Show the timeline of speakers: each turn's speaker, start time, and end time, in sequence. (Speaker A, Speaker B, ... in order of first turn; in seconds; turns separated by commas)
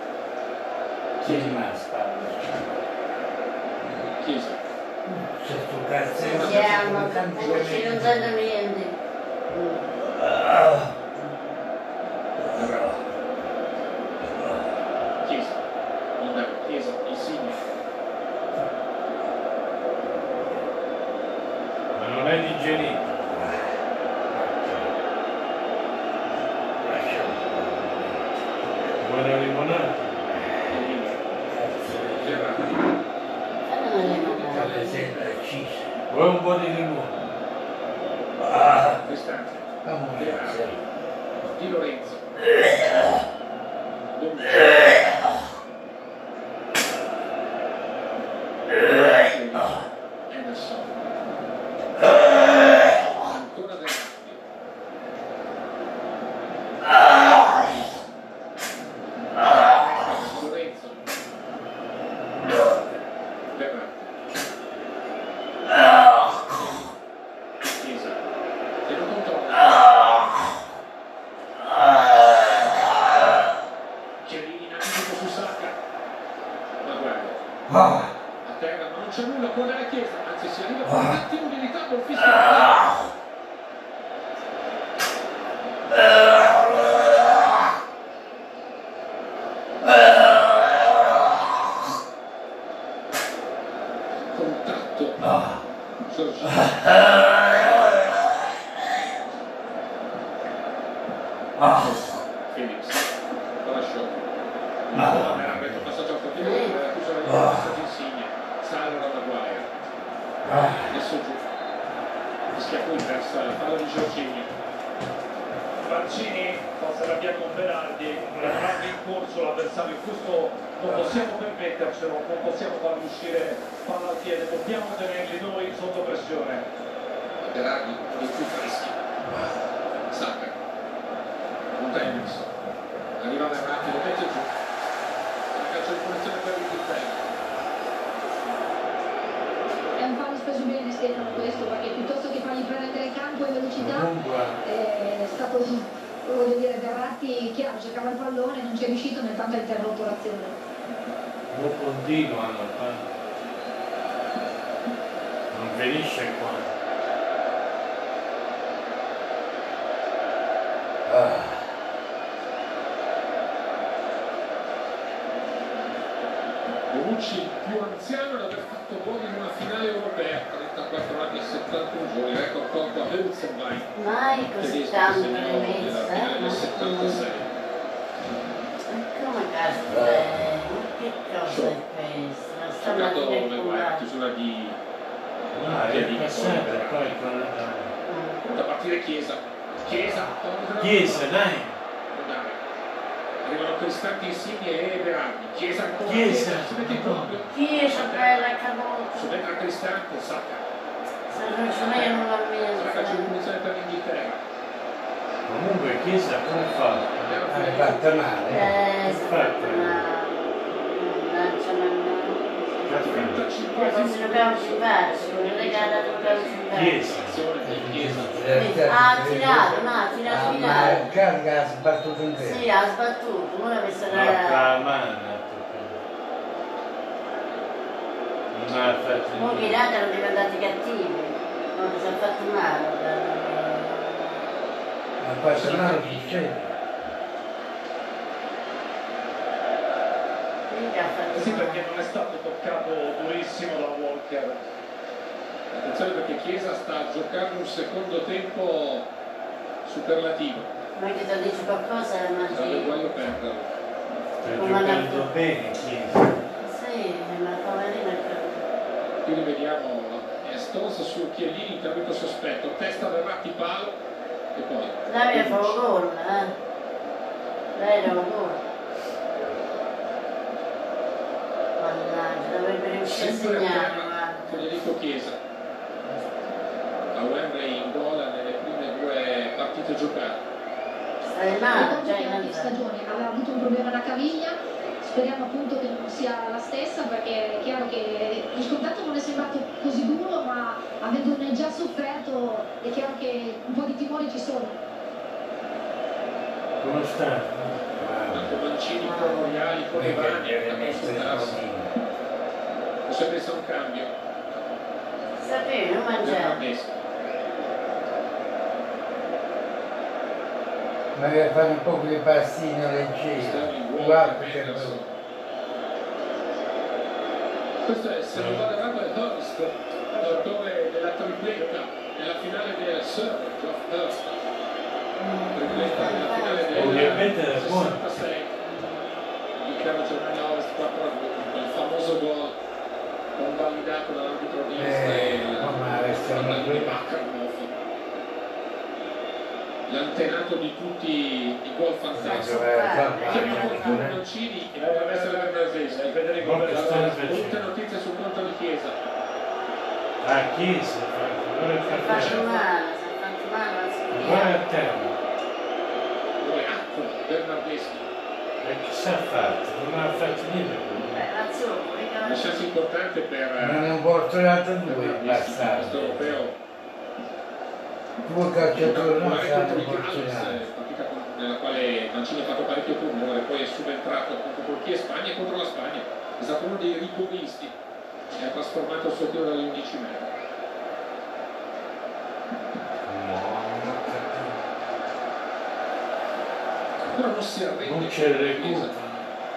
Speaker A: 1.2-2.6, Speaker B: 1.2-1.7, Speaker B: 4.2-4.6, Speaker A: 5.1-8.3, Speaker B: 6.2-8.0, Speaker C: 6.2-9.0, Speaker C: 9.5-9.9, Speaker A: 10.0-10.9, Speaker B: 12.6-12.9, Speaker A: 12.6-12.9, Speaker A: 14.4-14.6, Speaker B: 15.2-15.6, Speaker B: 16.2-17.6, Speaker D: 21.9-23.2, Speaker A: 23.3-23.6, Speaker A: 24.3-24.9, Speaker A: 26.8-28.4, Speaker D: 29.0-30.2, Speaker B: 30.7-31.3, Speaker A: 31.5-32.8, Speaker B: 32.2-32.9, Speaker C: 33.7-34.9, Speaker B: 34.0-35.3, Speaker A: 34.5-35.9, Speaker D: 36.1-37.2, Speaker A: 38.4-39.0, Speaker B: 39.0-40.7, Speaker A: 39.9-40.8, Speaker B: 41.5-42.2, Speaker B: 44.1-45.3, Speaker B: 48.8-50.9, Speaker B: 53.2-54.4, Speaker B: 59.4-61.0, Speaker B: 63.5-64.1, Speaker B: 67.6-68.2, Speaker B: 68.9-70.3, Speaker B: 74.2-75.8, Speaker B: 76.8-77.4, Speaker A: 77.8-78.0, Speaker B: 78.4-83.0, Speaker B: 94.3-95.3, Speaker B: 96.1-98.0, Speaker B: 101.7-103.1, Speaker B: 103.6-104.2, Speaker B: 104.9-109.7, Speaker A: 104.9-105.8, Speaker C: 106.4-106.7, Speaker A: 110.4-111.0, Speaker B: 110.8-111.4, Speaker B: 112.5-114.5, Speaker E: 115.8-126.7, Speaker B: 127.4-129.0, Speaker B: 130.1-130.5, Speaker B: 131.8-132.5, Speaker B: 133.2-134.5, Speaker B: 135.5-137.2, Speaker F: 140.0-144.1, Speaker D: 143.8-144.6, Speaker F: 144.6-150.6, Speaker D: 151.5-153.1, Speaker D: 155.5-156.7, Speaker A: 161.1-161.7, Speaker B: 166.9-173.9, Speaker C: 174.0-177.2, Speaker B: 174.6-177.5, Speaker C: 178.9-184.0, Speaker A: 179.9-180.3, Speaker B: 181.4-181.8, Speaker B: 182.8-184.8, Speaker D: 185.5-187.9, Speaker B: 185.7-187.2, Speaker C: 188.1-188.4, Speaker B: 188.4-191.3, Speaker D: 190.8-191.8, Speaker B: 192.1-192.6, Speaker B: 193.4-198.5, Speaker D: 196.0-197.4, Speaker C: 197.5-199.4, Speaker B: 199.1-200.6, Speaker C: 201.3-203.3, Speaker B: 201.9-204.4, Speaker D: 205.5-207.3, Speaker B: 207.2-208.6, Speaker A: 207.4-208.8, Speaker C: 208.5-213.0, Speaker D: 208.9-210.1, Speaker D: 212.8-213.4, Speaker B: 213.0-220.9, Speaker C: 213.7-217.0, Speaker D: 216.7-218.2, Speaker A: 217.6-222.7, Speaker C: 218.6-221.1, Speaker C: 222.4-224.7, Speaker D: 224.1-226.0, Speaker D: 228.5-229.8, Speaker C: 229.3-234.4, Speaker A: 235.2-236.7, Speaker B: 235.5-236.5, Speaker C: 240.7-241.8, Speaker E: 241.3-244.6, Speaker B: 245.7-249.1, Speaker B: 249.8-250.7, Speaker C: 250.9-253.0, Speaker B: 252.5-253.7, Speaker D: 254.4-256.4, Speaker C: 254.6-255.3, Speaker C: 256.6-258.6, Speaker B: 259.2-264.0, Speaker B: 264.6-265.8, Speaker C: 265.1-266.5, Speaker C: 267.7-268.6, Speaker C: 271.8-274.7, Speaker B: 273.0-275.4, Speaker B: 277.1-280.4, Speaker C: 281.3-282.7, Speaker F: 281.7-294.8, Speaker D: 296.8-297.8, Speaker A: 298.0-298.5, Speaker B: 298.3-301.6, Speaker C: 299.0-299.7, Speaker A: 299.9-301.9, Speaker B: 303.1-304.1, Speaker C: 305.4-306.6, Speaker B: 306.2-307.0, Speaker A: 311.1-315.0, Speaker B: 313.4-315.1, Speaker B: 317.8-324.2, Speaker D: 318.3-318.7, Speaker E: 320.1-320.5, Speaker C: 325.2-327.3, Speaker B: 325.5-328.6, Speaker D: 326.7-328.2, Speaker C: 328.7-329.0, Speaker B: 329.6-332.6, Speaker B: 333.4-337.7, Speaker A: 334.8-337.0, Speaker B: 339.9-342.7, Speaker A: 342.1-344.2, Speaker C: 342.2-344.1, Speaker B: 343.2-348.9, Speaker E: 344.8-347.3, Speaker D: 346.4-347.6, Speaker D: 350.2-352.4, Speaker C: 351.9-354.6, Speaker B: 352.0-352.6, Speaker D: 354.1-355.2, Speaker B: 356.4-358.1, Speaker D: 358.6-361.3, Speaker C: 361.1-362.7, Speaker B: 362.2-363.9, Speaker A: 363.6-366.4, Speaker B: 364.9-366.6, Speaker A: 368.2-370.6, Speaker B: 368.7-377.7, Speaker B: 378.4-380.3, Speaker D: 383.1-384.7, Speaker B: 387.1-388.9, Speaker D: 387.8-389.2